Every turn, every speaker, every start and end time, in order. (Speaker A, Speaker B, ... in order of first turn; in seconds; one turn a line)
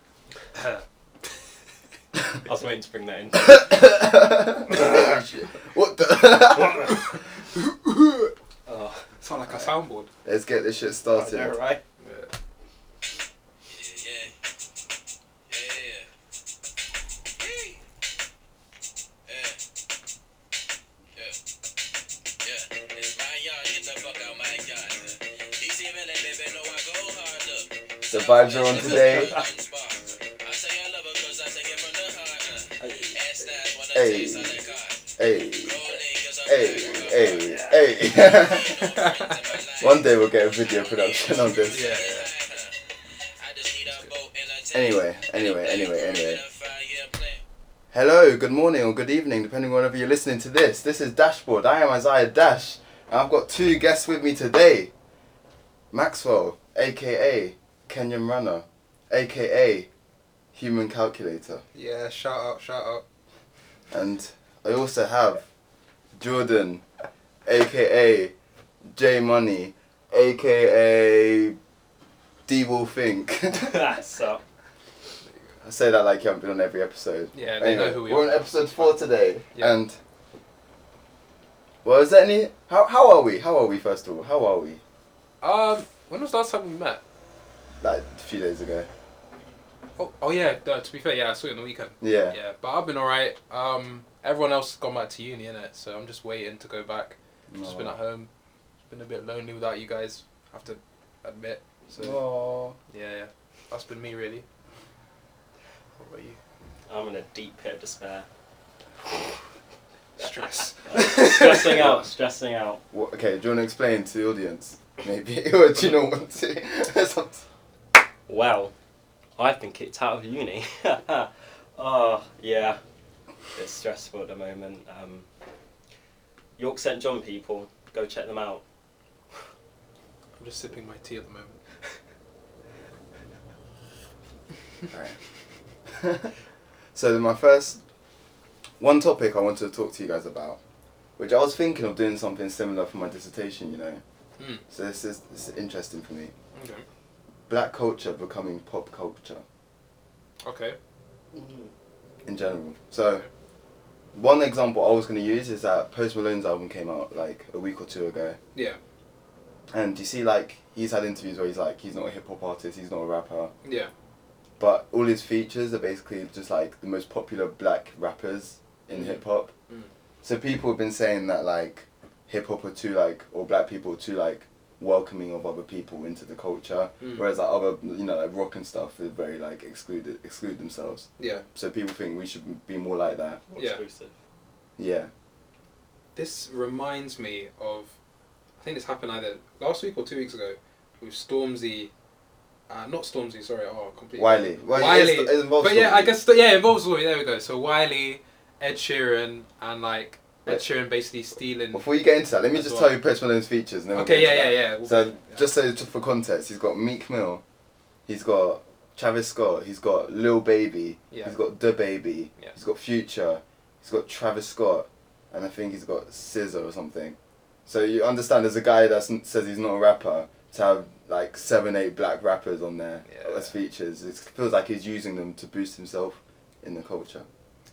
Speaker A: 0.5-0.8
Speaker B: 2.4-3.7
Speaker C: 3.3-8.3
Speaker B: 6.5-6.9
Speaker B: 8.7-9.1
Speaker A: 9.2-10.1
Speaker C: 10.2-11.5
Speaker B: 11.1-11.8
Speaker A: 12.0-12.3
Speaker D: 13.7-14.3
Speaker D: 15.5-16.0
Speaker D: 17.4-17.7
Speaker D: 19.3-19.6
Speaker D: 22.4-35.1
Speaker C: 28.1-29.3
Speaker B: 28.8-29.4
Speaker A: 32.8-33.1
Speaker C: 33.9-34.6
Speaker C: 35.2-35.8
Speaker D: 35.6-37.7
Speaker C: 36.4-38.8
Speaker D: 38.3-42.8
Speaker A: 38.8-39.4
Speaker C: 39.8-41.9
Speaker A: 41.7-42.3
Speaker D: 43.4-47.4
Speaker A: 43.8-44.1
Speaker C: 44.7-46.4
Speaker C: 47.9-54.9
Speaker C: 55.9-59.9
Speaker C: 60.5-61.6
Speaker A: 61.7-63.0
Speaker C: 63.9-65.4
Speaker C: 66.2-66.8
Speaker C: 67.5-68.3
Speaker C: 68.9-71.6
Speaker C: 72.5-74.0
Speaker B: 73.5-74.4
Speaker C: 75.6-80.0
Speaker A: 77.3-79.0
Speaker C: 81.8-84.8
Speaker A: 85.4-87.0
Speaker C: 87.8-88.9
Speaker A: 90.0-98.3
Speaker C: 92.0-92.3
Speaker C: 97.5-98.0
Speaker A: 98.9-102.2
Speaker C: 102.0-102.8
Speaker A: 102.9-104.5
Speaker A: 106.0-106.4
Speaker B: 106.9-108.3
Speaker A: 110.2-111.8
Speaker B: 110.9-112.8
Speaker C: 111.0-112.0
Speaker C: 112.9-117.4
Speaker B: 118.3-118.7
Speaker B: 119.4-122.8
Speaker B: 123.5-125.3
Speaker B: 126.6-128.6
Speaker A: 130.4-131.6
Speaker C: 134.9-135.2
Speaker C: 135.9-136.3
Speaker C: 136.9-137.8
Speaker C: 138.8-140.6
Speaker C: 141.2-144.0
Speaker A: 144.4-144.6
Speaker C: 144.7-146.3
Speaker A: 146.5-146.8
Speaker C: 147.5-149.4
Speaker A: 150.4-150.8
Speaker B: 151.3-151.7
Speaker C: 152.2-153.2
Speaker C: 154.1-158.4
Speaker C: 159.7-163.5
Speaker A: 163.6-163.9
Speaker C: 164.6-169.5
Speaker A: 168.9-169.9
Speaker C: 170.2-183.4
Speaker A: 177.0-177.2
Speaker A: 181.2-181.4
Speaker B: 183.5-184.2
Speaker A: 183.6-183.8
Speaker C: 184.8-185.1
Speaker A: 186.2-187.9
Speaker A: 188.6-191.9
Speaker A: 192.7-201.9
Speaker C: 194.2-196.1
Speaker C: 201.7-207.4
Speaker A: 202.5-202.9
Speaker A: 203.9-205.4
Speaker C: 208.1-227.3
Speaker A: 223.1-223.5